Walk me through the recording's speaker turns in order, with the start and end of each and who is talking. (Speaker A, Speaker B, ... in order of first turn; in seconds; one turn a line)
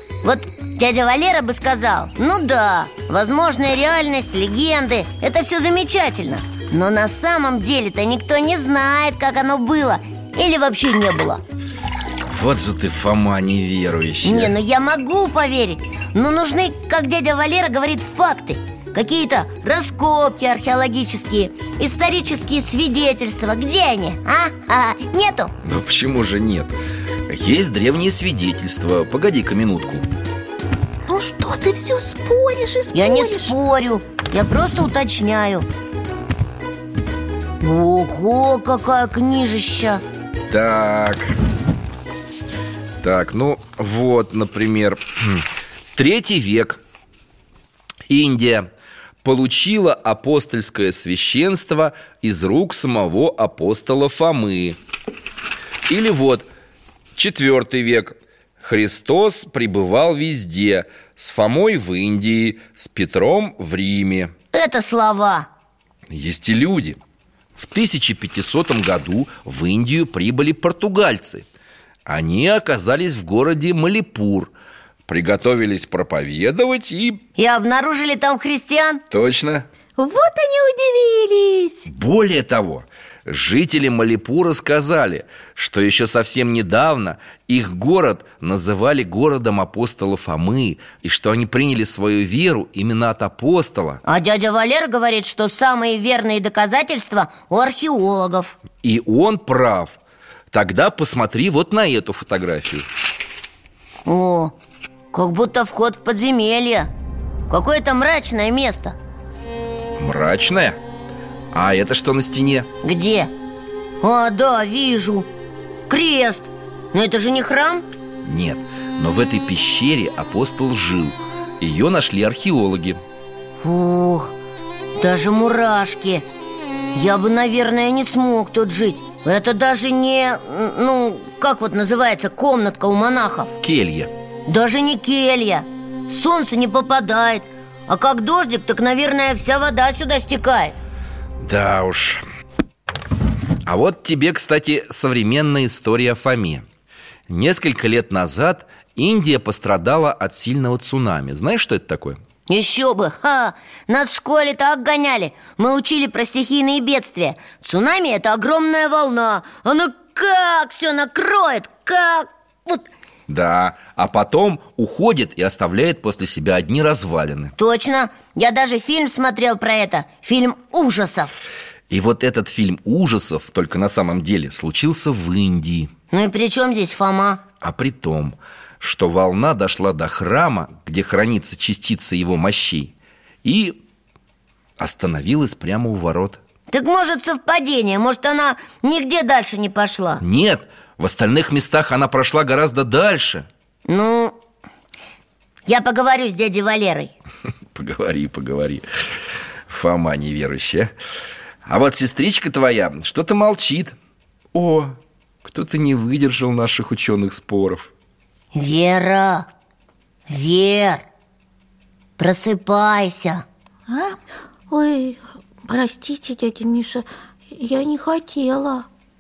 Speaker A: 0.2-11.4
Speaker B: 12.2-14.6
Speaker A: 14.2-25.5
Speaker B: 25.6-26.7
Speaker B: 27.3-30.1
Speaker C: 31.1-33.6
Speaker A: 32.9-35.7
Speaker A: 37.6-40.0
Speaker B: 40.5-41.4
Speaker B: 43.0-46.8
Speaker B: 48.1-48.7
Speaker B: 49.2-54.8
Speaker B: 55.9-56.5
Speaker B: 57.1-64.3
Speaker A: 64.5-65.5
Speaker B: 66.1-67.0
Speaker B: 67.6-71.5
Speaker B: 72.1-74.5
Speaker B: 75.1-77.2
Speaker A: 77.4-79.0
Speaker B: 79.1-79.7
Speaker C: 80.0-81.9
Speaker B: 81.9-94.0
Speaker A: 94.0-98.6
Speaker B: 98.8-100.0
Speaker B: 100.5-102.9
Speaker A: 104.1-104.5
Speaker A: 105.1-106.9
Speaker A: 107.5-109.0
Speaker B: 110.0-110.8
Speaker B: 111.5-112.7
Speaker A: 112.8-113.3
Speaker A: 114.0-115.3
Speaker A: 115.9-117.8
Speaker B: 118.2-123.0
Speaker A: 123.6-124.3
Speaker A: 125.0-126.2
Speaker A: 126.9-133.6
Speaker B: 133.6-134.1
Speaker A: 134.5-140.8
Speaker B: 141.4-142.2
Speaker B: 143.7-146.7
Speaker B: 147.3-152.2
Speaker A: 152.5-162.9
Speaker B: 163.3-167.5
Speaker A: 167.6-171.3
Speaker B: 171.9-175.9
Speaker A: 176.1-177.4
Speaker B: 177.6-182.9
Speaker B: 183.4-183.8
Speaker B: 184.8-186.4
Speaker A: 186.7-190.2
Speaker B: 190.2-193.5
Speaker A: 193.9-194.3
Speaker A: 195.7-197.1
Speaker B: 197.7-200.9
Speaker B: 201.7-204.0
Speaker B: 204.5-207.9
Speaker A: 208.5-209.5
Speaker A: 210.3-211.1
Speaker A: 212.2-213.4
Speaker C: 213.9-214.2
Speaker C: 214.7-218.9